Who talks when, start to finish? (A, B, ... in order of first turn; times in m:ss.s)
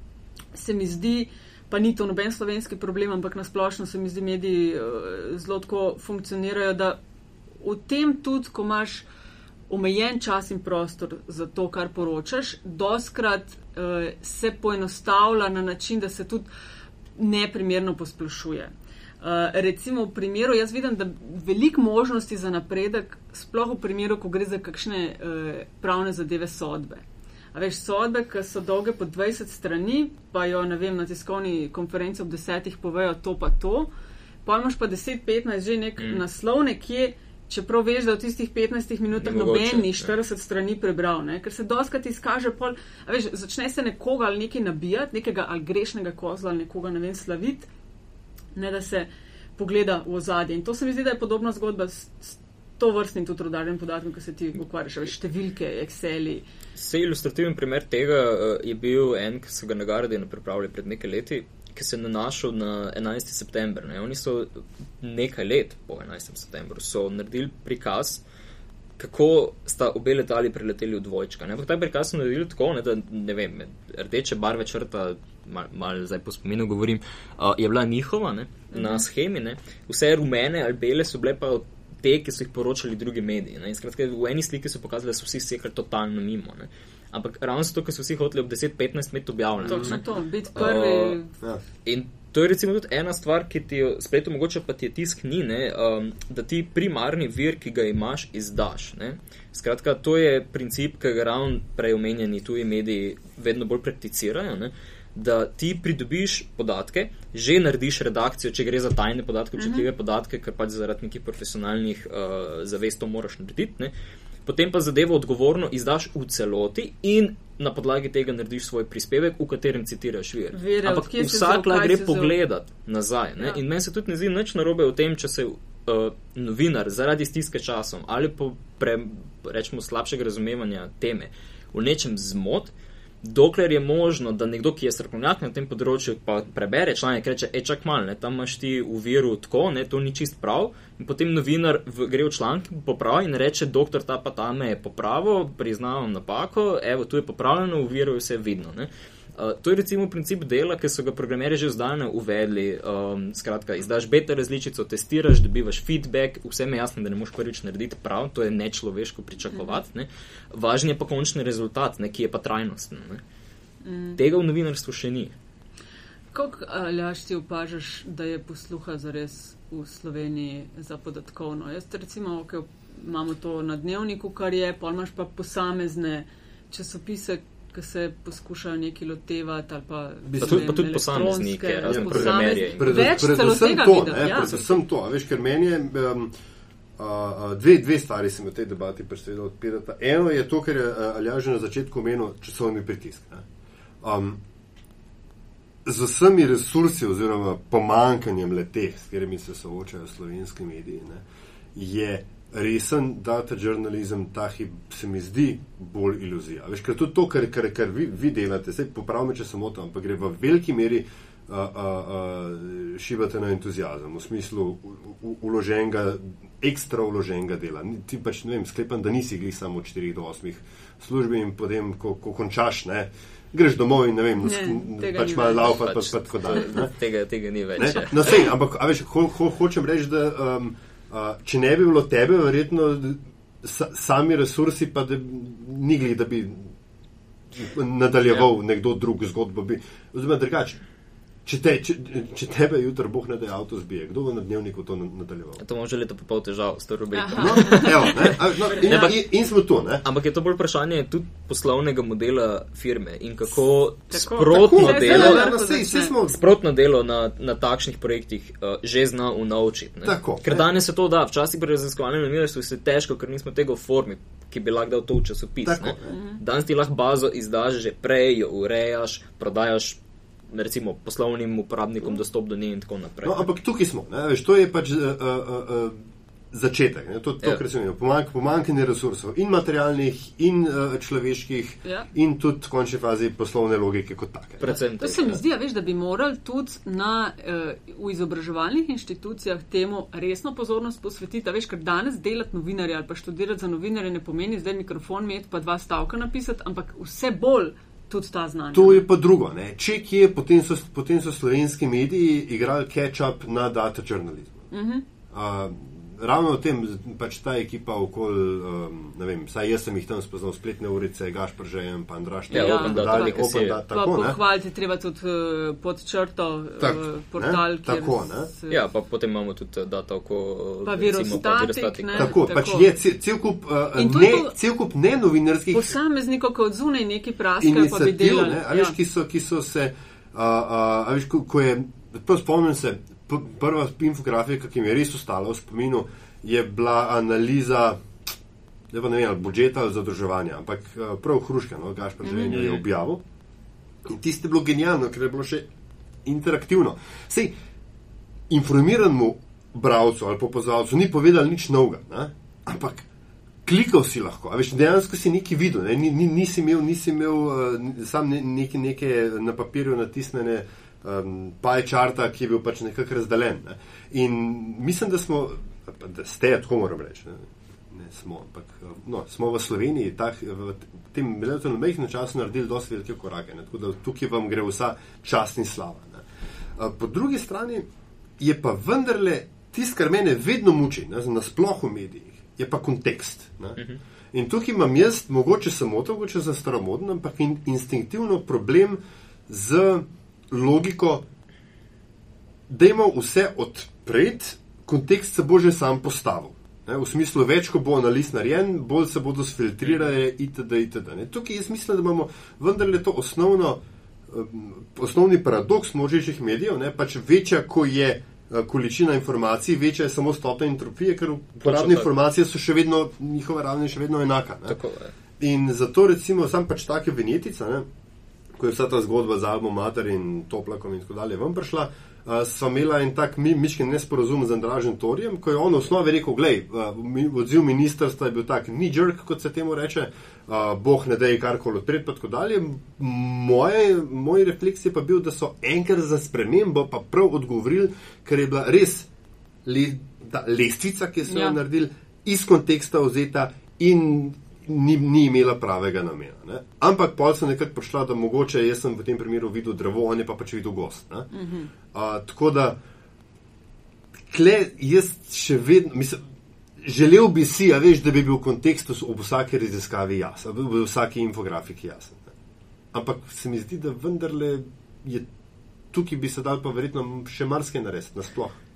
0:00.5-0:07.0 A
0:07.6-0:09.0 A
0:09.7-0:16.5 A
0:17.2-0:33.9 A
0:34.4-0:47.7 A
0:39.2-0:40.1 B
0:48.5-0:56.4 A
0:56.8-1:08.2 B
1:09.0-1:30.0 B
1:18.7-1:19.0 A
1:29.6-1:31.3 A
1:30.5-1:31.2 B
1:31.8-1:53.9 B
1:49.6-1:49.8 A
1:54.4-2:43.2 B
2:00.5-2:02.3 A
2:43.8-2:44.2 A
2:44.2-2:45.3 B
2:46.3-3:04.8 A
3:00.2-3:00.7 C
3:00.4-3:03.2 B
3:01.9-3:06.3 C
3:07.0-3:13.4 C
3:14.0-3:14.4 C
3:15.8-3:46.9 C
3:44.4-3:45.8 A
3:45.6-3:48.4 B
3:47.8-3:56.7 C
3:57.5-4:00.8 C
4:01.4-4:05.6 C
4:05.6-4:09.2 B
4:07.1-4:09.1 A
4:07.4-4:10.0 C
4:10.0-4:15.5 B
4:14.1-4:16.2 A
4:14.5-4:16.4 C
4:16.3-4:30.0 B
4:20.0-4:20.7 C
4:25.6-4:26.1 C
4:26.1-4:26.4 A
4:30.5-4:33.5 B
4:33.2-4:44.7 C
4:44.6-4:45.4 B
4:44.8-4:59.0 A
4:58.7-5:04.6 C
5:04.7-5:05.0 A
5:05.3-5:14.4 C
5:12.5-5:18.8 A
5:12.5-5:13.8 B
5:16.8-5:18.5 C
5:18.7-5:22.3 B
5:20.8-5:22.9 A
5:22.1-5:25.9 C
5:23.9-5:24.5 A
5:25.7-5:29.0 A
5:27.6-5:38.0 C
5:38.9-5:43.2 C
5:42.2-5:42.5 A
5:42.5-5:42.8 B
5:44.0-5:45.7 C
5:46.2-5:47.5 C
5:48.5-5:53.1 C
5:53.6-6:16.2 C
6:16.8-6:17.9 C
6:18.4-6:23.8 C
6:24.3-6:31.2 C
6:32.7-6:54.8 C
6:51.6-6:52.1 B
6:54.7-6:55.1 B
6:55.4-6:57.8 C
6:58.6-7:19.1 C
7:19.6-7:31.3 C
7:21.2-7:21.6 A
7:31.3-7:31.7 A
7:31.9-7:32.8 C
7:34.3-7:36.2 C
7:36.8-7:42.3 C
7:42.9-7:45.3 C
7:45.9-7:48.6 C